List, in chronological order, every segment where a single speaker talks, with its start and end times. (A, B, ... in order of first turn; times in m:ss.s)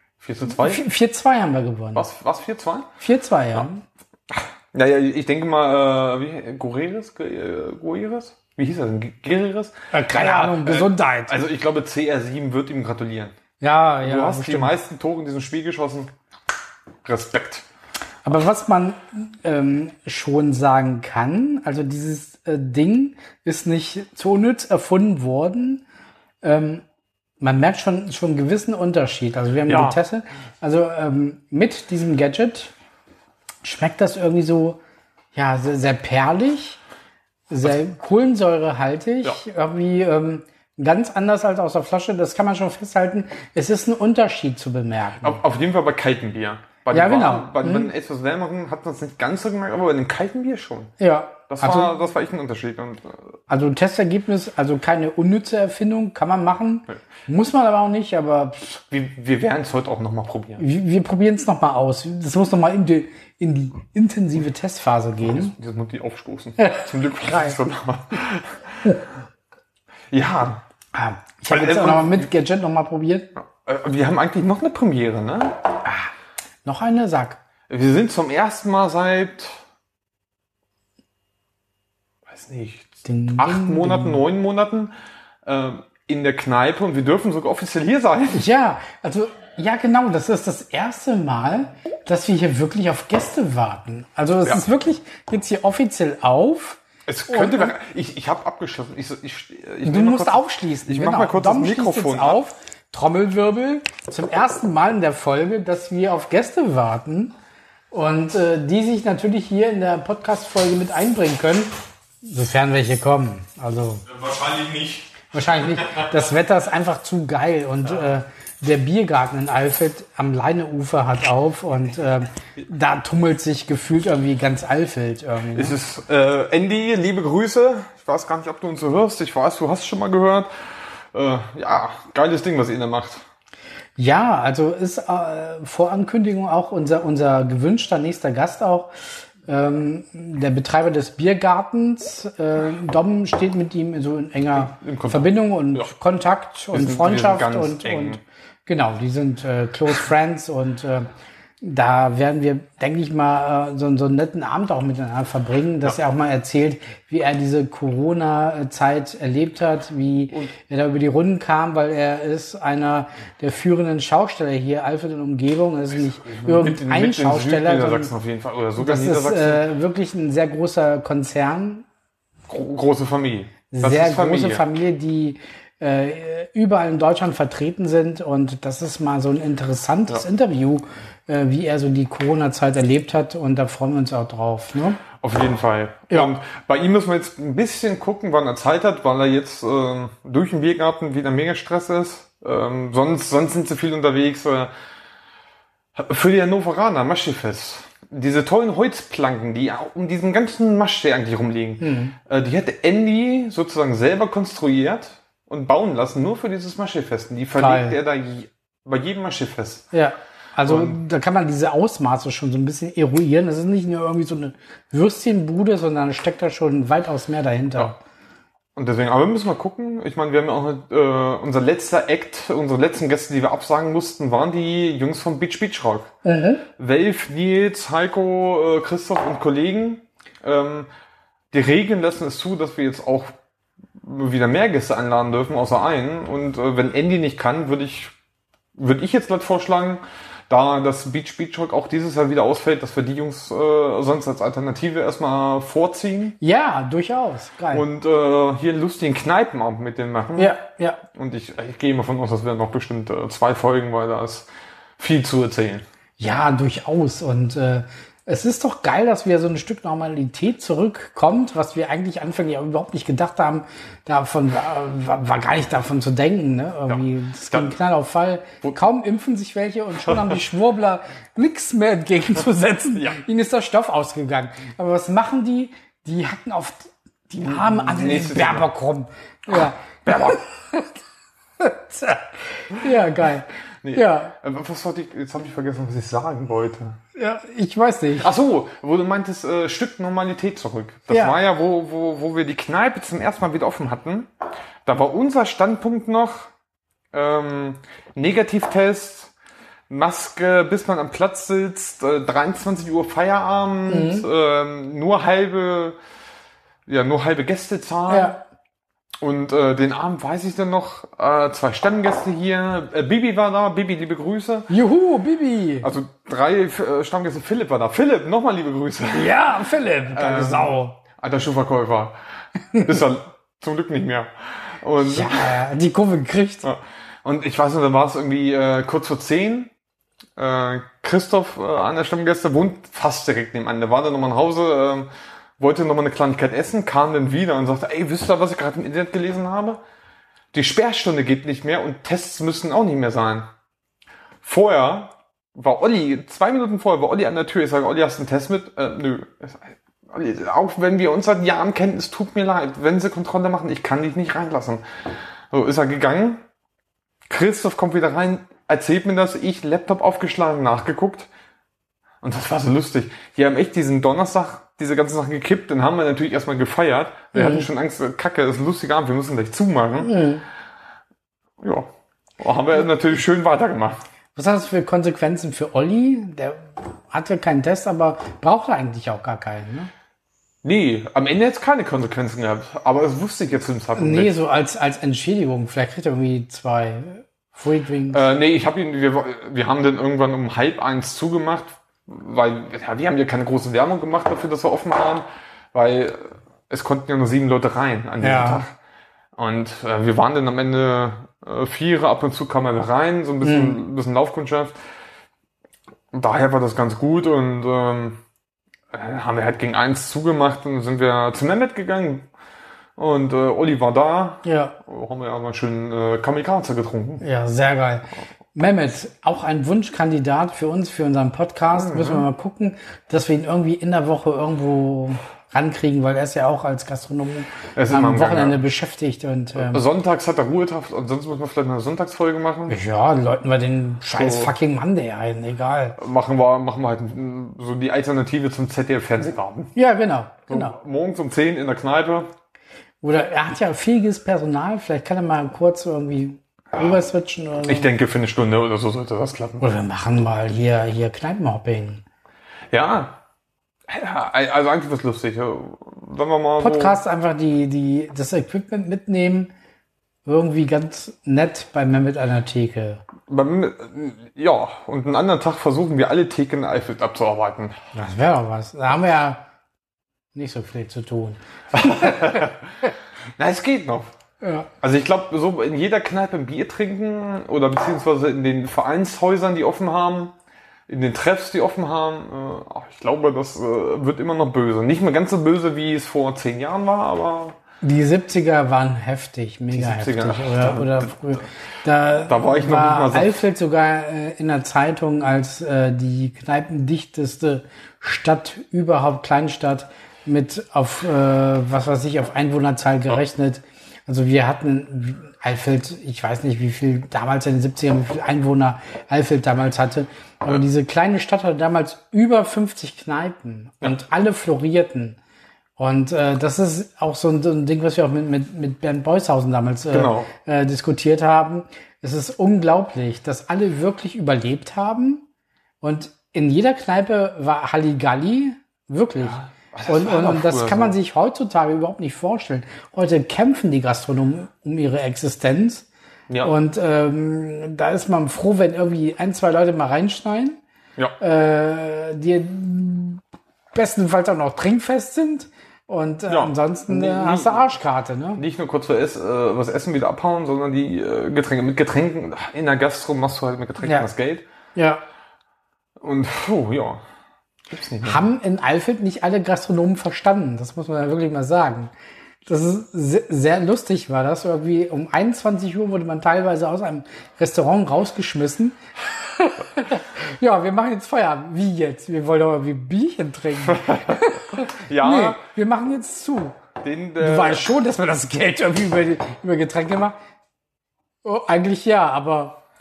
0:00.2-0:00.8 A
0:00.5-0:02.0 B
0:01.9-0:02.9 A
0:03.0-0:03.8 B
0:04.3-0:13.3 A
0:09.9-0:11.3 B
0:13.6-0:14.7 B
0:14.0-0:16.1 A
0:17.0-0:17.6 A
0:18.2-0:25.8 B
0:26.4-0:26.8 B
0:27.4-0:32.7 B
0:29.7-0:30.0 A
0:33.6-0:34.8 B
0:35.3-0:36.8 B
0:37.5-0:45.4 B
0:45.2-0:50.9 A
0:46.9-0:47.9 B
0:51.0-0:51.9 B
0:51.5-0:53.3 A
0:53.5-0:58.8 B
0:58.9-1:00.6 A
1:00.6-1:05.5 B
1:05.2-1:08.9 A
1:06.6-1:07.6 B
1:10.1-1:10.6 A
1:10.9-1:13.3 B
1:11.5-1:12.2 A
1:13.4-1:15.6 A
1:16.6-1:17.4 B
1:17.7-1:19.6 A
1:22.3-1:24.9 A
1:23.0-1:24.2 B
1:25.4-1:28.4 A
1:28.3-1:37.7 B
1:37.0-1:42.4 A
1:39.8-1:47.3 B
1:47.9-1:51.7 B
1:52.2-1:54.0 B
1:54.0-1:56.1 A
1:55.3-2:05.8 B
2:05.5-2:13.2 A
2:14.0-2:18.9 B
2:19.4-2:31.1 B
2:24.5-2:25.9 A
2:26.7-2:28.2 A
2:31.6-2:48.1 B
2:46.2-2:49.6 A
2:48.8-2:51.8 B
2:52.5-2:54.6 A
2:53.7-3:05.0 B
3:05.2-3:14.7 A
3:15.9-3:29.9 A
3:21.8-3:22.1 B
3:27.6-3:28.0 B
3:29.9-3:38.0 B
3:30.6-3:31.0 A
3:38.7-3:46.1 A
3:46.2-3:46.6 B
3:46.8-3:50.9 A
3:51.5-3:53.3 A
3:54.0-3:58.1 A
3:58.8-4:06.4 A
4:06.4-4:07.8 B
4:07.7-4:10.5 A
4:10.4-4:11.0 B
4:11.1-4:15.8 A
4:16.2-4:40.9 B
4:26.9-4:27.8 A
4:32.9-4:33.2 A
4:37.4-4:38.7 A
4:39.5-4:40.4 A
4:41.6-4:44.3 B
4:43.8-4:47.0 A
4:47.1-4:48.3 B
4:48.2-4:54.3 A
4:51.1-4:51.4 B
4:54.8-4:56.5 A
4:57.1-4:59.3 A
4:59.9-5:06.0 A
5:03.9-5:04.2 B
5:06.9-5:08.3 A
5:08.1-5:08.4 B
5:09.2-5:14.7 A
5:14.7-5:15.9 B
5:15.8-5:19.3 A
5:19.1-5:21.0 B
5:20.1-5:22.2 A
5:22.7-5:25.6 A
5:25.0-5:26.7 B
5:26.6-5:29.7 A
5:30.4-5:39.8 A
5:40.5-5:43.5 A
5:44.4-5:56.4 A
5:57.3-6:01.3 A
6:02.2-6:10.1 A
6:07.3-6:07.7 B
6:10.0-6:10.4 B
6:11.6-6:14.0 A
6:14.3-6:19.9 B
6:20.6-6:24.3 A
6:24.0-6:28.2 B
6:28.1-6:38.7 A
6:38.2-6:38.6 B
6:39.4-6:44.8 A
6:43.4-6:43.8 B
6:46.1-6:48.2 A
6:48.9-6:52.3 A
6:53.0-6:57.2 A
6:54.4-6:54.8 B
6:57.2-7:09.8 B
7:01.7-7:02.3 A
7:07.7-7:08.6 A
7:09.6-7:12.8 A
7:12.7-7:16.0 B
7:14.1-7:14.5 A
7:16.0-7:19.7 A
7:19.8-7:20.7 B
7:20.5-7:22.3 A
7:23.0-7:27.9 B
7:27.6-7:29.6 A
7:29.6-7:32.0 B
7:32.7-7:33.2 A
7:33.9-7:37.0 A
7:36.6-7:39.5 B
7:40.2-7:43.0 B
7:43.3-7:47.7 A
7:47.9-7:49.4 B
7:50.3-7:52.5 B
7:51.7-7:52.7 A
7:53.4-7:54.1 A
7:54.4-7:54.7 B
7:54.8-8:00.3 A
8:00.9-8:07.6 A
8:07.8-8:35.2 B
8:09.7-8:11.4 A
8:12.3-8:13.4 A
8:35.8-8:45.2 B
8:39.9-8:40.3 A
8:45.8-8:55.9 B
8:49.2-8:50.9 A
8:56.4-9:00.6 B
9:01.2-9:03.2 B
9:03.7-9:08.4 B
9:06.3-9:07.8 A
9:08.4-9:14.4 A
9:13.8-9:14.1 B
9:14.7-9:15.0 B
9:16.0-9:17.0 A
9:17.7-9:18.2 A
9:18.0-9:21.9 B
9:22.4-9:36.6 B
9:33.6-9:35.4 A
9:36.8-9:37.7 A
9:37.2-9:40.2 B
9:41.2-9:42.6 B